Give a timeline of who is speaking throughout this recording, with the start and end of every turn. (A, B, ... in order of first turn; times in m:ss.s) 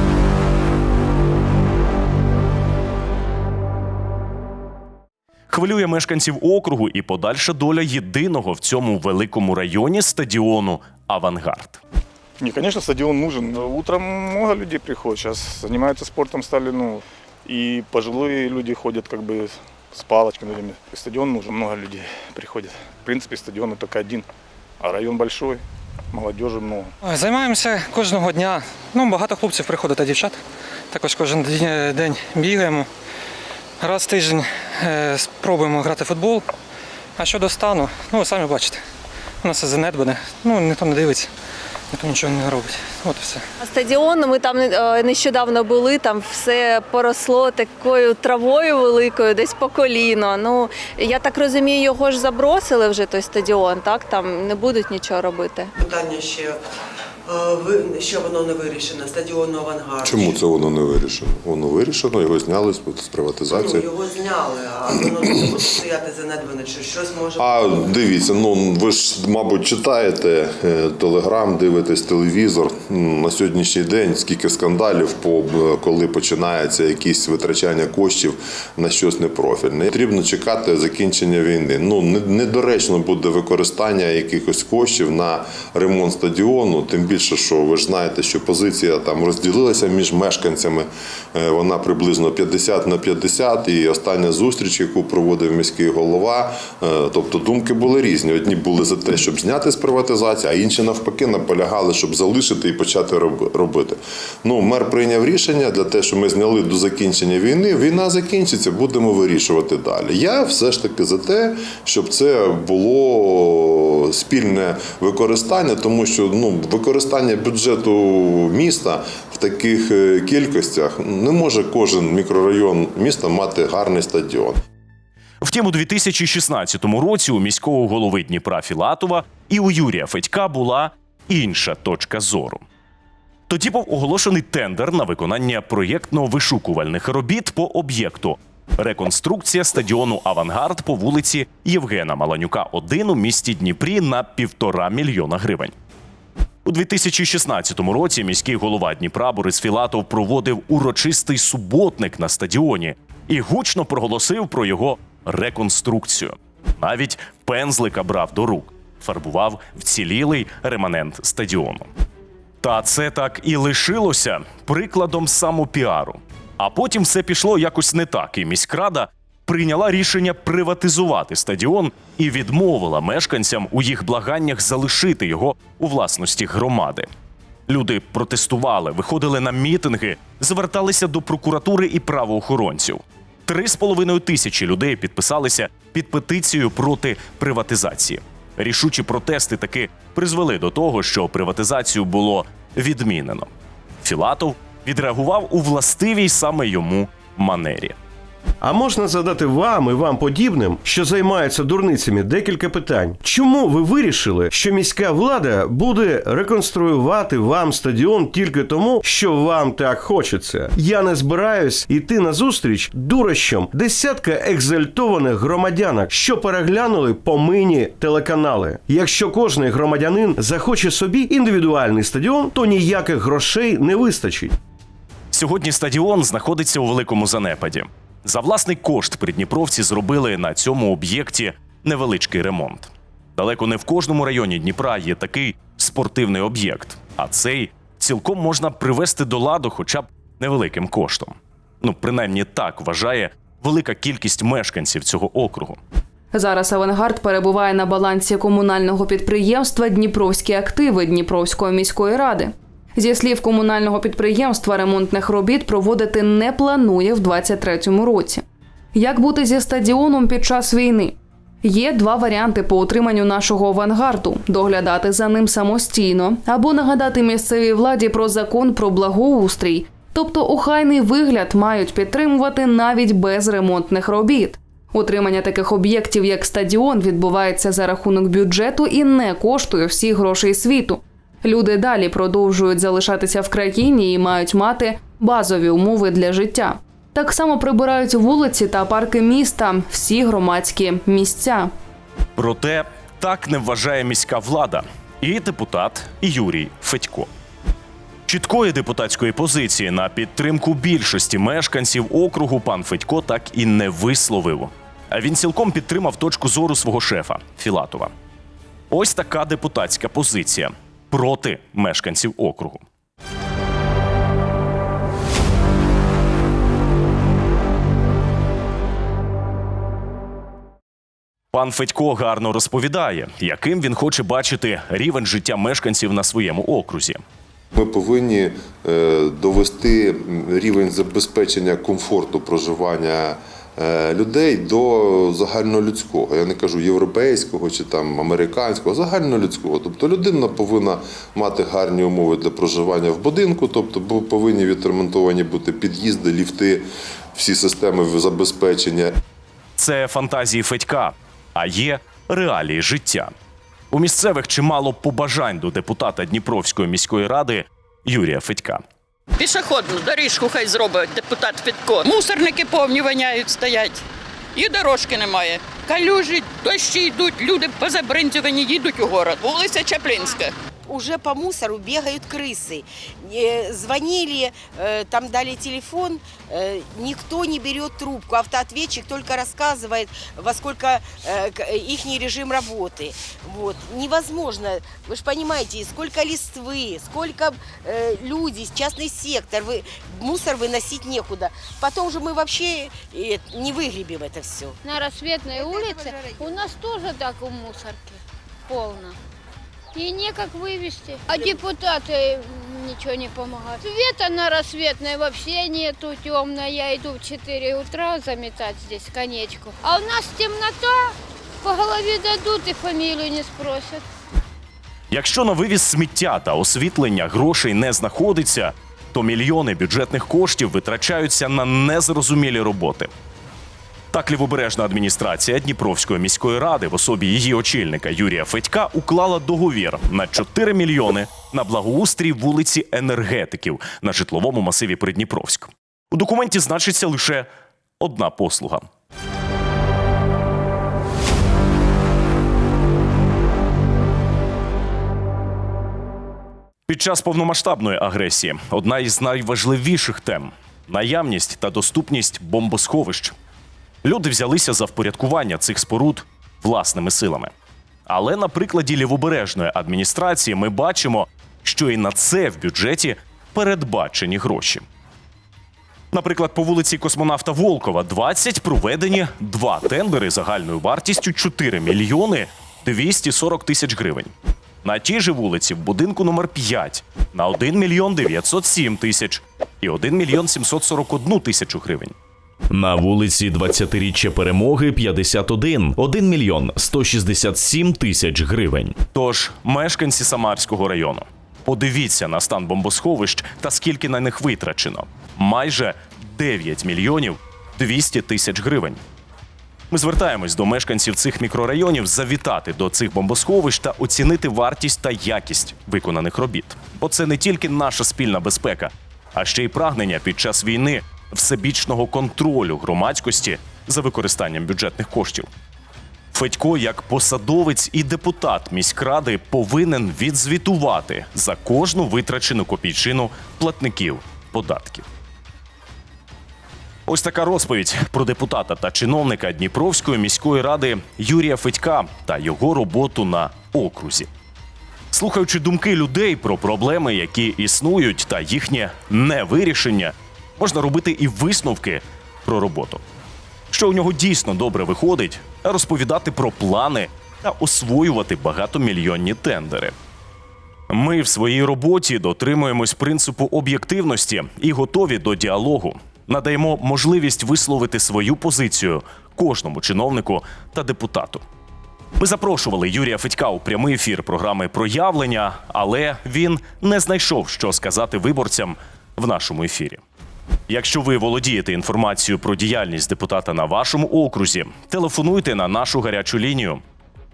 0:05.5-0:11.8 A
0:12.4-0:24.2 B
0:24.8-0:26.9 B
0:27.0-0:30.4 C
0:30.9-0:32.9 C
0:33.8-0:36.5 C
0:37.2-0:38.8 C
0:39.4-0:41.3 C
0:41.9-0:43.4 C
0:43.6-0:55.7 D
0:55.8-0:56.6 E
0:57.3-1:00.3 E
1:00.0-1:03.9 F
1:03.5-1:07.6 E
1:07.4-2:04.6 F
2:05.4-2:12.6 A
2:13.5-2:25.7 A
2:26.6-2:41.9 A
2:42.6-2:57.1 A
2:57.7-3:13.5 A
3:14.0-3:18.0 A
3:18.6-3:44.5 G
3:45.3-4:05.8 A
4:06.3-4:18.4 H
4:18.9-4:51.7 H
4:52.4-4:57.3 A
4:58.2-5:08.1 A
5:08.9-5:12.8 A
5:21.5-5:27.2 A
5:27.7-5:49.2 F
5:49.8-5:53.3 A
5:53.9-5:58.8 A
5:59.4-6:04.0 I
6:04.5-6:10.5 I
6:10.9-6:34.8 J
6:34.8-6:39.2 K
6:35.5-6:36.6 J
6:39.9-6:54.0 K
6:41.3-6:41.6 J
6:55.1-7:03.1 A
7:04.1-7:18.9 A
7:26.9-7:33.3 A
7:34.0-7:37.5 A
7:38.1-7:44.8 A
7:46.1-8:02.1 A
8:02.7-8:09.0 L
8:09.1-8:19.0 A
8:19.9-8:35.5 A
8:36.3-8:45.0 A
8:47.0-8:54.3 A
8:55.1-9:03.0 A
9:03.7-9:09.9 A
9:10.9-9:21.4 A
9:22.2-9:30.0 A
9:30.7-9:36.8 A